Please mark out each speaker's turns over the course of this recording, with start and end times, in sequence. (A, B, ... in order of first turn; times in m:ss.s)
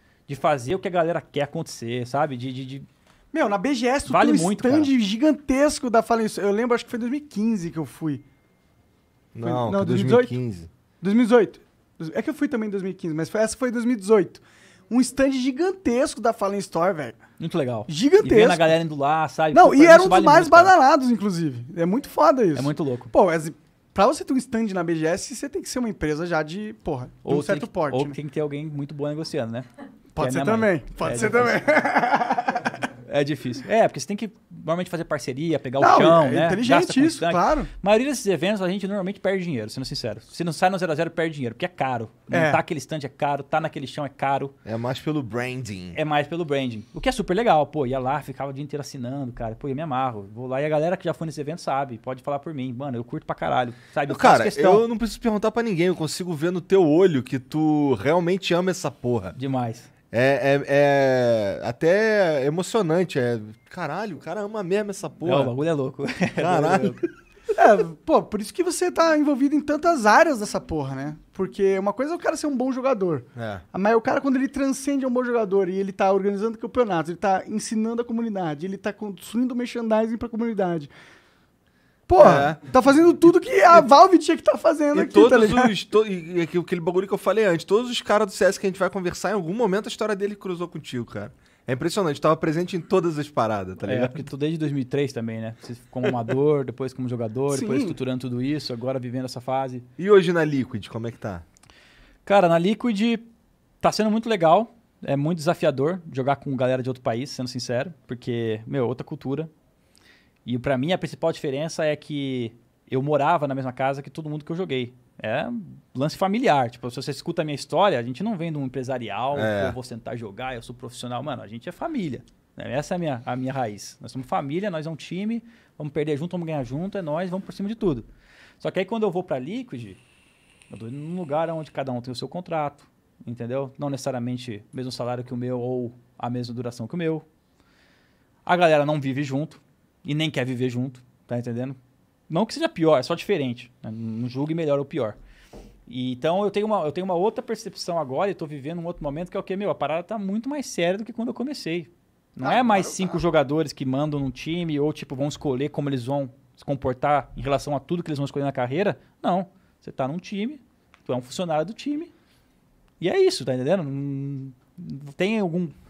0:00.3-0:02.9 A
0:03.3-0:08.2 B
0:04.0-0:04.9 A
0:09.3-0:10.7 C
0:09.4-0:10.3 B
0:11.0-0:17.2 B
0:17.4-0:20.7 A
0:17.9-0:18.7 B
0:19.5-0:28.2 B
0:22.5-0:23.1 A
0:27.2-0:31.6 A
0:30.2-0:32.7 B
0:32.9-0:44.5 A
0:35.8-0:37.7 B
0:42.3-0:42.6 B
0:44.6-0:46.0 C
0:45.9-0:54.8 A
0:54.1-0:59.4 C
0:59.3-0:59.9 A
1:00.1-1:05.5 C
1:05.2-1:07.1 A
1:06.4-1:07.0 C
1:07.6-1:20.9 B
1:13.4-1:13.6 C
1:22.1-1:25.7 B
1:22.2-1:22.6 C
1:24.9-1:34.2 C
1:33.8-1:39.8 A
1:37.5-1:38.0 B
1:40.0-1:41.4 C
1:42.2-1:43.2 A
1:43.8-1:49.5 A
1:50.4-2:08.0 A
1:59.3-1:59.8 C
2:08.6-2:10.0 A
2:10.7-2:17.2 A
2:18.4-2:21.8 A
2:22.3-2:25.2 A
2:25.9-2:42.1 A
2:32.4-2:33.2 B
2:43.0-2:45.7 A